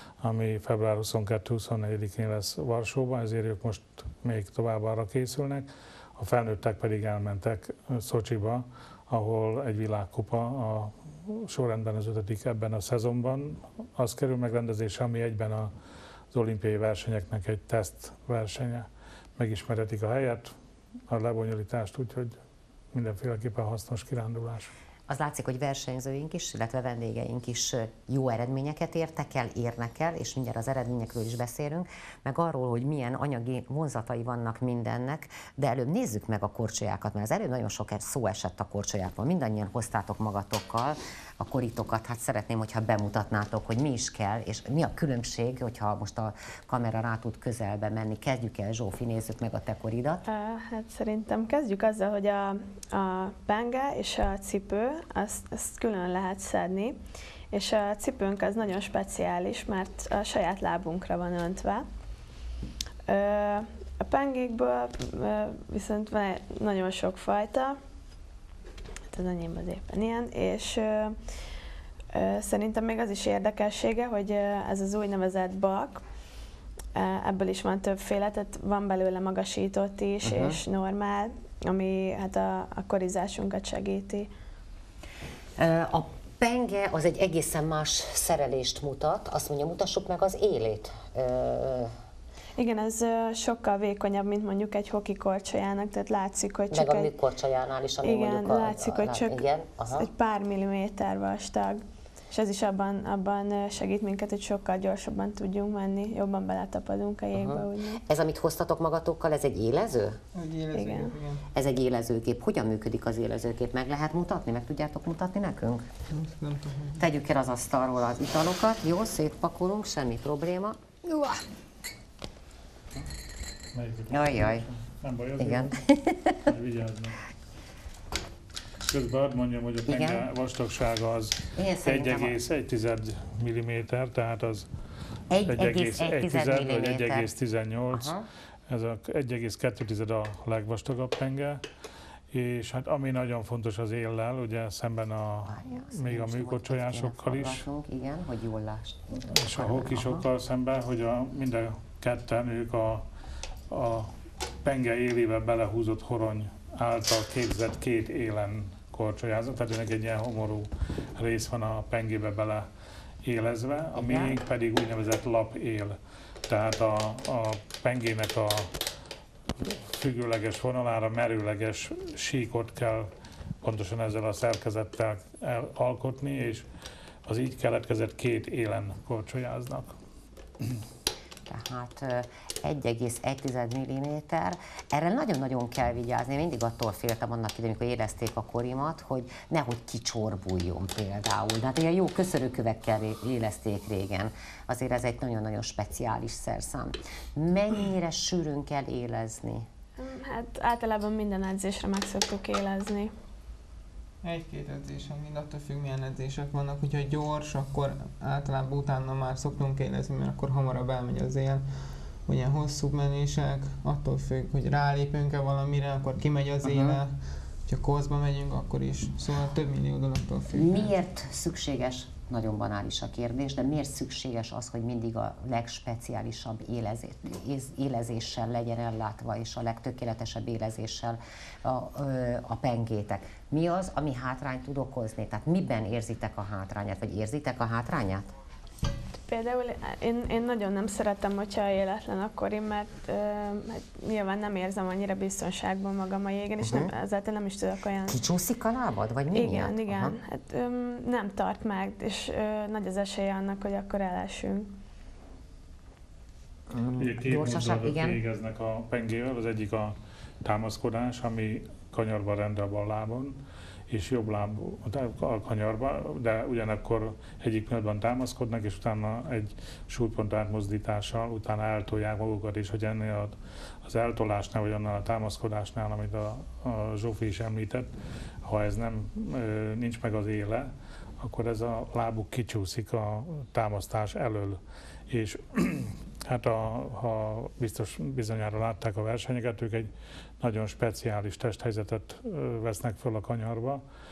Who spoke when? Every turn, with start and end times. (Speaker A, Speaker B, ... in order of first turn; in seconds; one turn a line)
Speaker A: 0.2-15.7
Speaker A: 16.3-20.5
Speaker A: 21.1-22.4
Speaker A: 22.9-24.7
Speaker B: 25.1-50.2
Speaker C: 50.3-57.0
Speaker C: 57.5-61.9
Speaker C: 63.1-67.8
Speaker C: 69.1-71.2
Speaker C: 72.1-76.0
Speaker C: 77.0-84.3
Speaker B: 80.2-80.6
Speaker B: 85.6-91.9
Speaker C: 92.6-97.1
Speaker B: 96.7-100.1
Speaker C: 98.0-99.4
Speaker C: 100.0-108.0
Speaker B: 107.3-110.2
Speaker D: 110.3-111.5
Speaker C: 110.7-111.2
Speaker B: 111.5-115.9
Speaker D: 116.1-117.0
Speaker B: 117.0-121.4
Speaker A: 123.7-125.8
Speaker B: 124.1-124.7
Speaker B: 125.4-126.5
Speaker A: 126.4-127.2
Speaker A: 128.8-134.7
Speaker B: 129.9-130.2
Speaker B: 131.5-132.3
Speaker B: 135.3-137.3
Speaker A: 135.5-141.6
Speaker B: 137.9-138.3
Speaker A: 142.3-147.6
Speaker B: 145.5-150.2
Speaker A: 149.3-153.1
Speaker A: 153.7-162.7
Speaker A: 163.2-166.0
Speaker B: 163.9-164.4
Speaker A: 166.5-168.8
Speaker A: 169.6-173.1
Speaker A: 173.6-176.7
Speaker A: 177.3-179.9
Speaker B: 181.5-199.7
Speaker C: 200.0-203.1
Speaker D: 204.2-220.9
Speaker B: 216.6-217.0
Speaker B: 220.5-238.3
Speaker C: 239.3-248.2
Speaker B: 246.6-246.9
Speaker B: 248.1-250.2
Speaker C: 249.3-254.7
Speaker B: 256.7-258.2
Speaker A: 257.0-263.4
Speaker A: 263.9-277.9
Speaker A: 278.4-293.8